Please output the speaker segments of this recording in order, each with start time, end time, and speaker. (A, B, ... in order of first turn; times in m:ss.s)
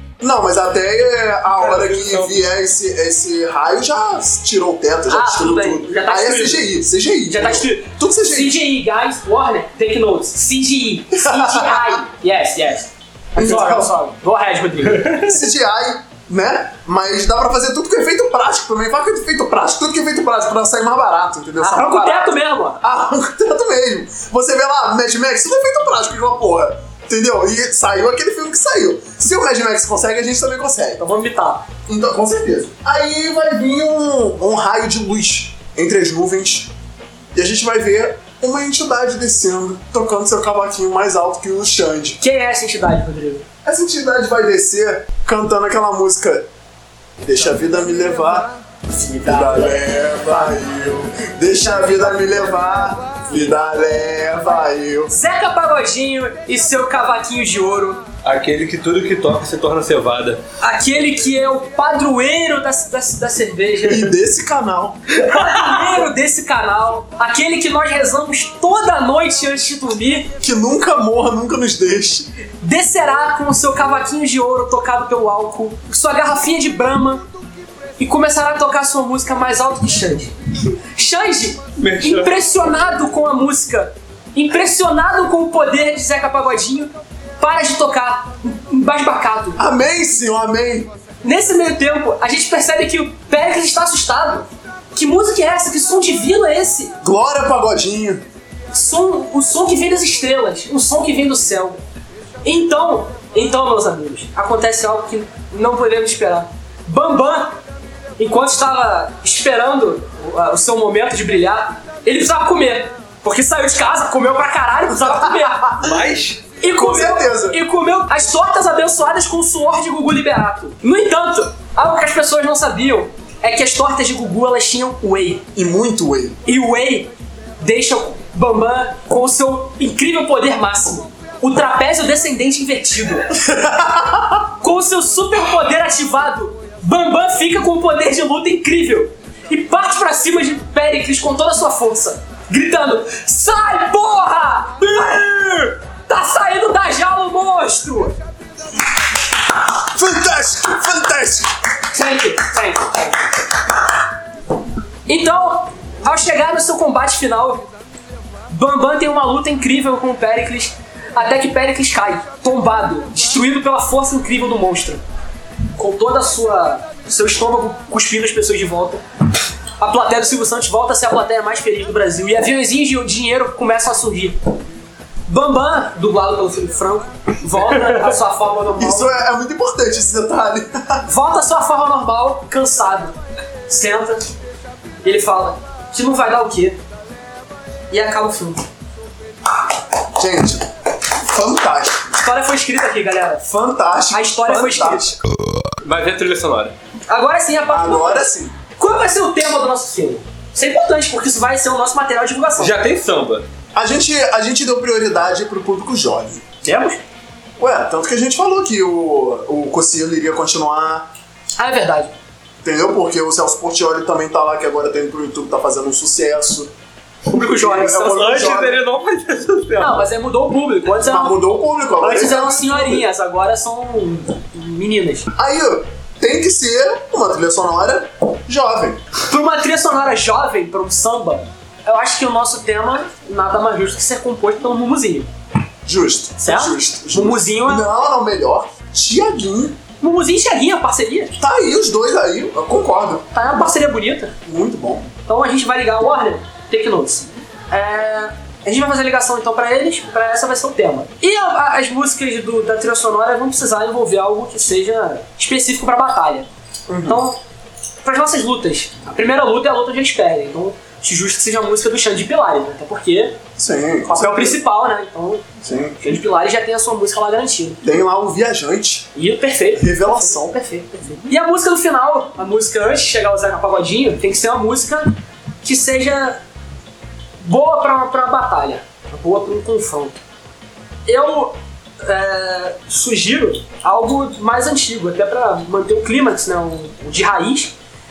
0:00.2-0:08.6 A
0:01.6-0:02.4 B
0:05.1-0:06.7 C
0:07.3-0:15.3 C
0:11.1-0:12.0 A
0:13.4-0:13.9 A
0:15.1-0:31.0 A
0:21.6-0:22.8 C
0:31.0-0:31.7 C
0:31.9-0:36.7 A
0:37.4-0:42.2 A
0:42.2-0:43.4 C
0:43.6-0:46.5 A
0:47.2-0:48.5 A
0:48.9-0:49.8 C
0:49.2-0:55.2 A
0:51.6-0:53.5 C
0:55.1-0:58.0 C
0:58.2-1:00.4 B
1:00.6-1:04.1 C
1:03.8-1:05.1 A
1:05.1-1:10.3 C
1:10.4-1:12.3 A
1:12.6-1:17.3 C
1:18.0-1:20.4 C
1:20.9-1:29.6 C
1:21.8-1:22.4 B
1:29.6-1:30.9 A
1:31.2-1:37.0 C
1:37.0-1:38.2 A
1:38.7-1:41.8 C
1:42.4-1:47.6 C
1:48.2-1:55.9 C
1:55.0-1:55.5 A
1:55.8-1:56.4 B
1:56.6-2:05.4 C
1:56.7-1:57.6 A
2:05.5-2:06.4 A
2:06.4-2:13.3 C
2:13.4-2:14.4 A
2:14.6-2:28.2 C
2:29.7-2:31.5 A
2:31.9-2:33.2 C
2:35.1-2:37.6 C
2:38.5-2:45.0 C
2:45.8-2:49.0 C
2:49.8-2:54.5 C
2:55.3-2:59.2 C
2:58.8-3:01.0 A
3:01.1-3:03.2 C
3:03.7-3:04.3 C
3:05.0-3:06.8 C
3:07.9-3:08.6 C
3:10.2-3:12.1 A
3:12.1-3:13.5 C
3:13.4-3:15.2 A
3:14.1-3:15.2 C
3:15.8-3:16.7 B
3:17.1-3:22.8 C
3:17.7-3:18.6 A
3:22.6-3:23.4 B
3:23.8-3:26.4 A
3:26.6-3:27.0 C
3:27.6-3:31.1 A
3:31.6-3:32.1 C
3:32.6-3:36.7 A
3:37.3-3:38.6 C
3:37.4-3:38.8 A
3:37.9-3:40.1 B
3:39.8-3:41.4 C
3:41.0-3:43.0 A
3:42.0-3:45.3 C
3:45.3-3:49.0 A
3:49.2-3:55.3 C
3:55.8-3:59.8 A
3:56.4-3:57.9 C
4:00.0-4:01.4 C
4:01.4-4:03.2 A
4:03.3-4:04.4 C
4:04.4-4:05.1 A
4:05.3-4:16.5 C
4:16.9-4:17.2 A
4:17.0-4:17.4 C
4:18.0-4:23.4 C
4:23.6-4:24.6 A
4:24.1-4:27.8 C
4:25.6-4:26.0 A
4:27.8-4:29.1 A
4:29.2-4:36.4 C
4:29.8-4:30.6 A
4:37.4-4:40.2 C
4:41.1-4:47.7 C